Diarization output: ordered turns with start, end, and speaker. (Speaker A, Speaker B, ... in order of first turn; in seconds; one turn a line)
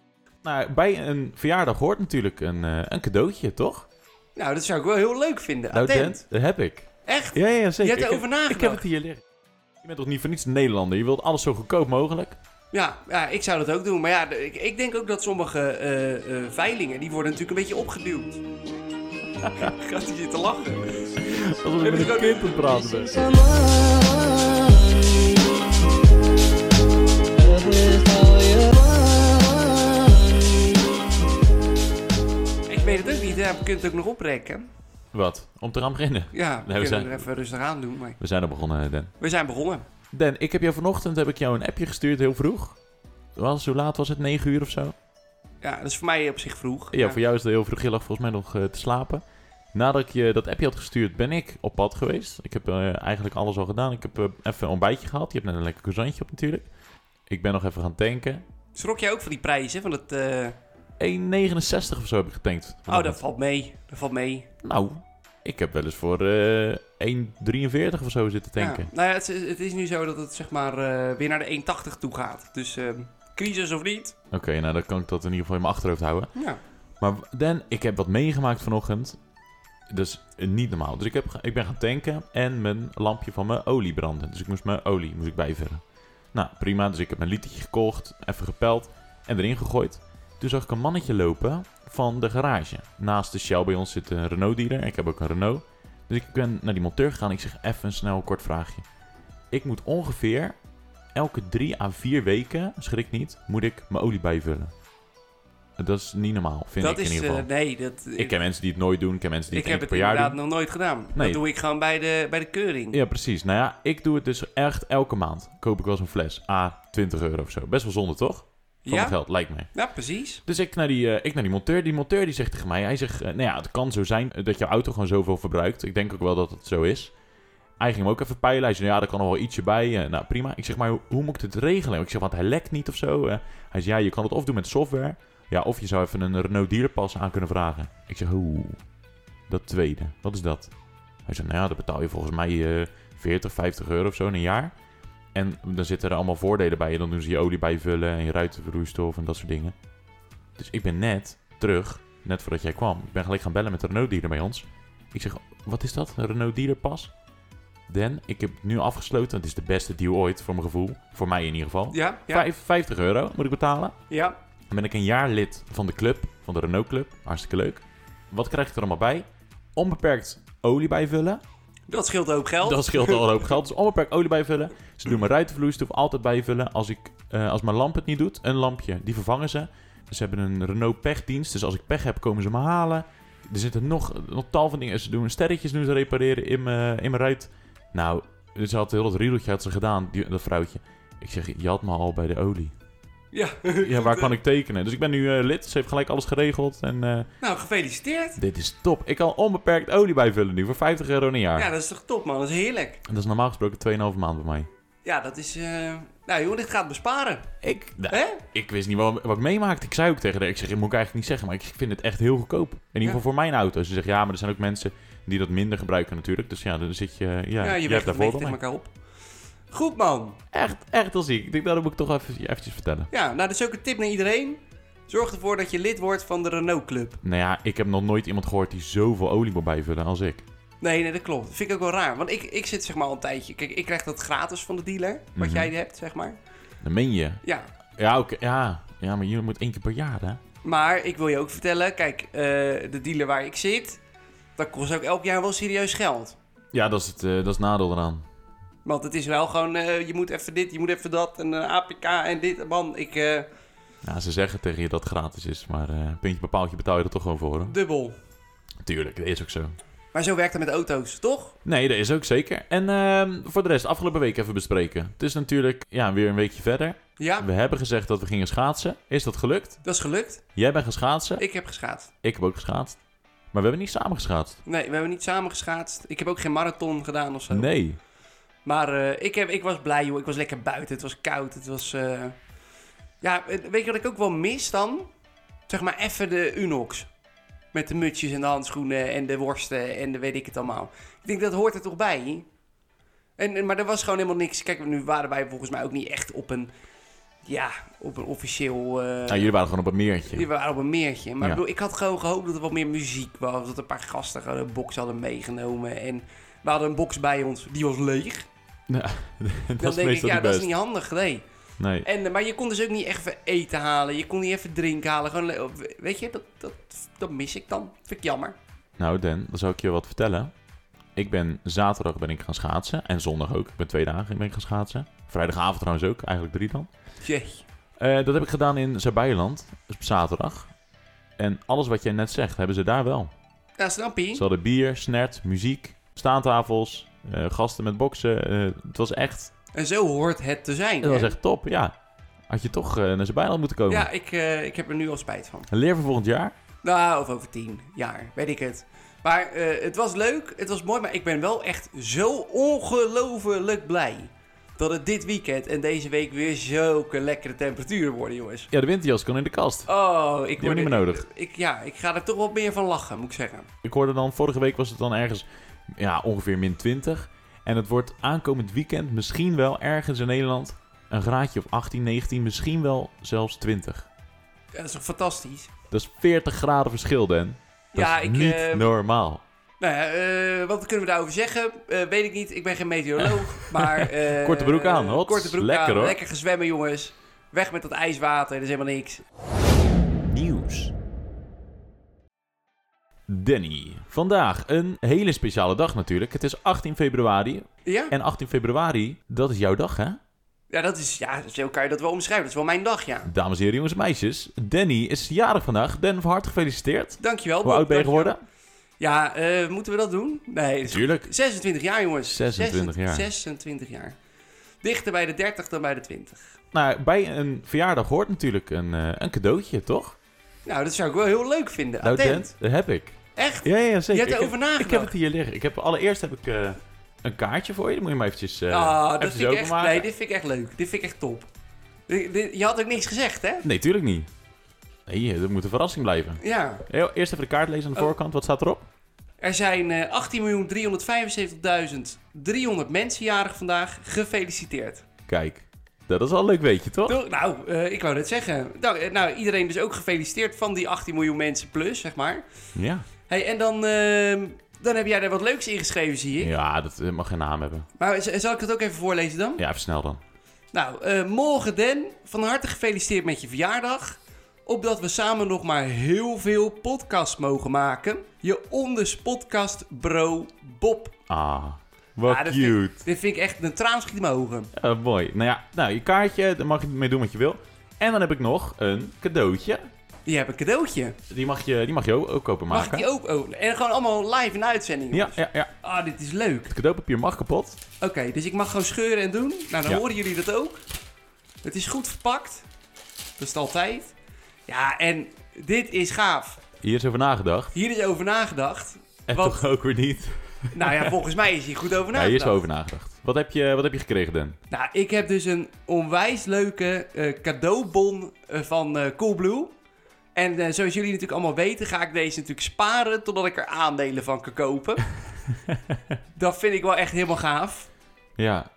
Speaker A: 0.4-3.9
Speaker B: 4.3-6.2
Speaker A: 5.7-9.2
Speaker B: 7.0-8.8
Speaker A: 9.8-12.4
Speaker B: 12.7-18.4
Speaker A: 19.4-19.7
Speaker B: 19.6-21.1
Speaker A: 21.2-23.4
Speaker B: 21.8-22.4
Speaker C: 22.0-25.5
Speaker C: 27.4-30.8
Speaker B: 32.7-34.7
Speaker A: 35.1-37.2
Speaker B: 36.3-38.2
Speaker A: 38.2-39.1
Speaker B: 39.2-39.9
Speaker A: 40.1-42.8
Speaker A: 43.3-45.0
Speaker B: 45.6-47.2
Speaker A: 46.9-56.7
Speaker A: 57.3-58.4
Speaker B: 58.7-60.6
Speaker A: 61.0-63.2
Speaker B: 62.9-64.5
Speaker A: 64.6-68.9
Speaker B: 68.6-74.2
Speaker A: 74.3-76.3
Speaker B: 76.3-76.6
Speaker A: 77.0-79.2
Speaker A: 79.9-85.8
Speaker A: 86.3-98.8
Speaker A: 99.5-100.6
Speaker A: 101.1-104.7
Speaker A: 105.8-107.5
Speaker B: 106.8-108.3
Speaker A: 108.2-110.4
Speaker B: 109.5-113.0
Speaker A: 111.1-111.4
Speaker A: 112.9-119.7
Speaker B: 118.8-119.2
Speaker B: 119.7-120.4
Speaker A: 120.5-127.1
Speaker A: 127.8-138.8
Speaker A: 139.5-140.7
Speaker A: 141.2-144.7
Speaker A: 145.3-149.8
Speaker A: 150.6-157.1
Speaker A: 157.9-164.0
Speaker B: 161.9-162.4
Speaker B: 164.1-164.4
Speaker A: 164.7-171.4
Speaker B: 171.9-173.3
Speaker A: 172.6-192.7
Speaker B: 193.3-194.4
Speaker A: 193.8-197.3
Speaker B: 197.4-198.4
Speaker A: 198.4-201.7
Speaker B: 201.6-203.0
Speaker A: 203.1-204.7
Speaker B: 205.0-207.5
Speaker A: 207.6-218.6
Speaker B: 208.1-208.4
Speaker B: 217.6-218.9
Speaker B: 219.7-220.4
Speaker A: 220.5-223.1
Speaker B: 223.1-227.2
Speaker A: 227.2-230.4
Speaker B: 230.8-236.4
Speaker A: 235.3-235.7
Speaker A: 236.8-237.4
Speaker A: 238.0-240.4
Speaker B: 240.6-244.0
Speaker B: 244.6-246.4
Speaker A: 246.7-248.2
Speaker B: 248.8-253.5
Speaker A: 254.0-257.7
Speaker B: 257.6-258.2
Speaker A: 258.8-259.8
Speaker B: 260.1-261.6
Speaker A: 261.6-269.8
Speaker B: 267.2-267.5
Speaker B: 269.8-270.4
Speaker A: 270.6-271.4
Speaker B: 271.4-272.1
Speaker A: 272.2-273.0
Speaker A: 273.5-274.6
Speaker B: 274.6-277.7
Speaker A: 277.5-278.0
Speaker B: 278.6-282.4
Speaker B: 283.2-285.1
Speaker B: 285.7-287.1
Speaker B: 287.7-292.5
Speaker B: 293.4-296.7
Speaker B: 297.4-299.5
Speaker A: 299.3-300.5
Speaker B: 300.3-308.5
Speaker A: 308.9-310.7
Speaker B: 309.8-311.4
Speaker A: 311.8-312.1
Speaker B: 312.0-318.6
Speaker A: 319.0-320.5
Speaker A: 321.1-326.9
Speaker B: 327.2-327.6
Speaker A: 328.0-330.7
Speaker A: 331.4-333.3
Speaker B: 333.8-334.4
Speaker A: 334.3-339.5
Speaker B: 339.7-341.3
Speaker A: 341.0-341.9
Speaker A: 342.5-344.1
Speaker B: 343.9-345.7
Speaker A: 345.7-346.5
Speaker B: 346.8-358.7
Speaker A: 358.7-359.9
Speaker B: 359.9-363.7
Speaker A: 360.6-361.2
Speaker A: 363.8-374.1
Speaker B: 374.7-375.7
Speaker A: 375.9-379.4
Speaker B: 377.9-378.9
Speaker B: 379.8-389.2
Speaker A: 383.2-386.2
Speaker A: 390.2-390.9
Speaker A: 393.3-400.2
Speaker B: 397.9-398.1
Speaker B: 400.7-403.3
Speaker A: 403.2-408.4
Speaker B: 407.2-408.4
Speaker B: 409.0-414.2
Speaker A: 410.9-411.3
Speaker A: 412.2-413.3
Speaker B: 414.8-416.5
Speaker A: 416.7-420.1
Speaker B: 420.6-422.5
Speaker A: 422.0-430.1
Speaker B: 423.4-425.1
Speaker B: 428.7-431.5
Speaker B: 432.1-433.6
Speaker A: 433.6-434.3
Speaker A: 435.1-438.9
Speaker B: 436.4-436.9
Speaker B: 439.4-445.0
Speaker A: 445.3-447.2
Speaker B: 447.1-452.4
Speaker A: 452.7-453.1
Speaker B: 453.3-456.5
Speaker A: 456.4-457.9
Speaker B: 458.0-459.6
Speaker A: 459.6-460.2
Speaker B: 460.7-471.1
Speaker A: 471.3-473.0
Speaker B: 472.2-474.7
Speaker A: 474.7-479.8
Speaker B: 480.2-481.2
Speaker A: 481.3-483.1
Speaker B: 482.7-486.7
Speaker A: 485.1-485.7
Speaker A: 486.7-487.8
Speaker B: 488.0-490.8
Speaker B: 491.6-492.6
Speaker B: 493.4-494.1
Speaker B: 494.7-496.6
Speaker A: 496.8-497.8
Speaker B: 497.7-499.6
Speaker A: 499.3-501.2
Speaker B: 500.7-502.6
Speaker A: 502.1-504.6
Speaker B: 504.7-509.7
Speaker B: 510.3-515.1
Speaker A: 515.7-516.0
Speaker B: 516.4-517.9
Speaker A: 518.4-518.7